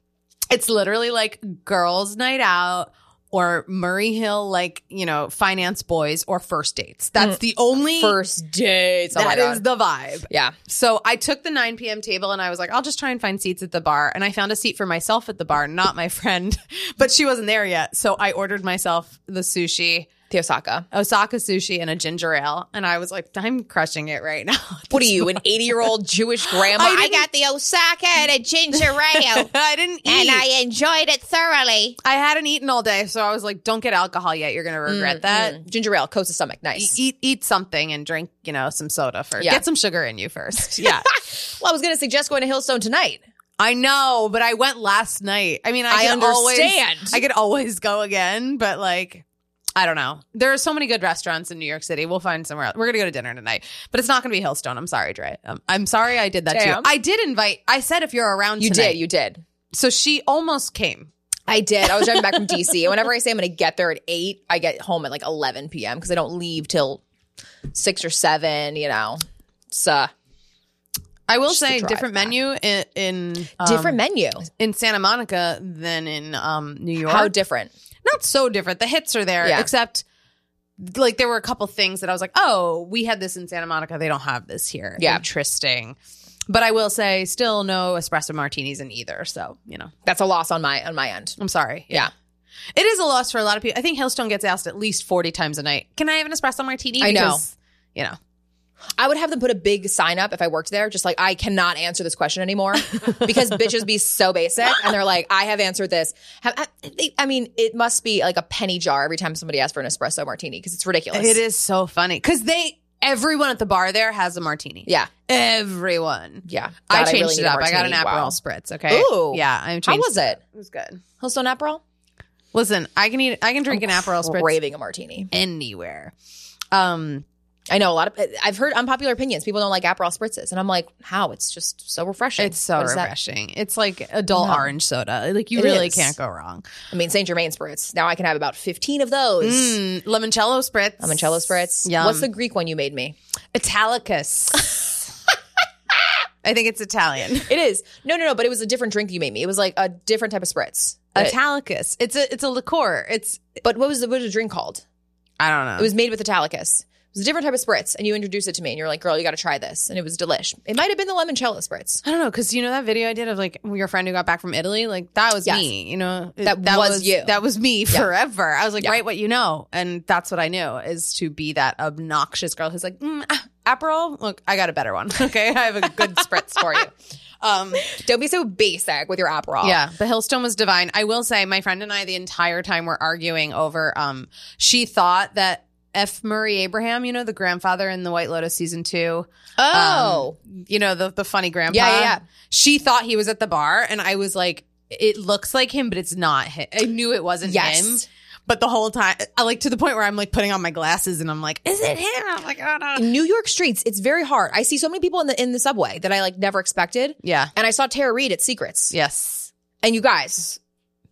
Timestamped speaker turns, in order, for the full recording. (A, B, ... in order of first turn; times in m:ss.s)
0:00.5-0:08.2 A
0:08.0-0:09.6 B
0:09.1-0:20.1 A
0:10.3-0:10.5 B
0:20.3-0:20.8 B
0:20.9-0:25.4 A
0:24.9-0:29.5 B
0:26.5-0:27.2 A
0:28.7-0:30.4 A
0:30.0-0:32.0 B
0:32.0-0:35.6 A
0:34.9-0:37.0 B
0:36.7-0:41.1 A
0:40.8-0:43.2 B
0:43.6-0:49.2 A
0:45.9-0:47.2 B
0:49.8-0:59.0 A
0:56.5-0:56.9 B
0:58.6-0:59.4 B
0:59.7-1:01.1 A
1:01.5-1:07.0 B
1:07.7-1:10.1 B
1:11.3-1:17.3 A
1:11.5-1:12.3 B
1:13.6-1:14.5 B
1:17.0-1:17.7 B
1:18.0-1:20.0 A
1:19.4-1:19.7 B
1:20.8-1:26.0 A
1:25.0-1:25.2 B
1:26.5-1:29.9 A
1:30.0-1:31.4 B
1:31.4-1:32.1 A
1:32.8-1:38.2 A
1:37.0-1:37.4 B
1:39.0-1:51.4 B
1:51.1-2:01.0 A
1:56.5-1:58.4 B
1:58.9-2:00.4 B
2:01.2-2:01.8 B
2:02.5-2:04.5 A
2:03.7-2:05.3 B
2:05.3-2:06.1 A
2:06.7-2:07.2 A
2:07.7-2:13.1 B
2:12.4-2:16.7 A
2:14.3-2:14.7 B
2:15.5-2:16.1 B
2:16.9-2:19.8 B
2:19.4-2:22.3 A
2:21.0-2:23.2 B
2:23.5-2:25.0 A
2:26.4-2:27.5 A
2:27.5-2:31.3 B
2:31.1-2:33.4 A
2:33.6-2:34.8 B
2:35.4-2:35.9 A
2:35.8-2:42.0 B
2:42.0-2:56.9 A
2:46.4-2:47.3 B
2:56.0-2:56.9 B
2:57.4-2:57.9 A
2:57.8-2:59.8 B
2:59.6-3:23.0 A
3:09.6-3:10.4 B
3:11.7-3:12.2 B
3:17.4-3:18.0 B
3:23.0-3:28.9 B
3:27.2-3:27.5 A
3:28.9-3:29.5 A
3:29.8-3:30.6 B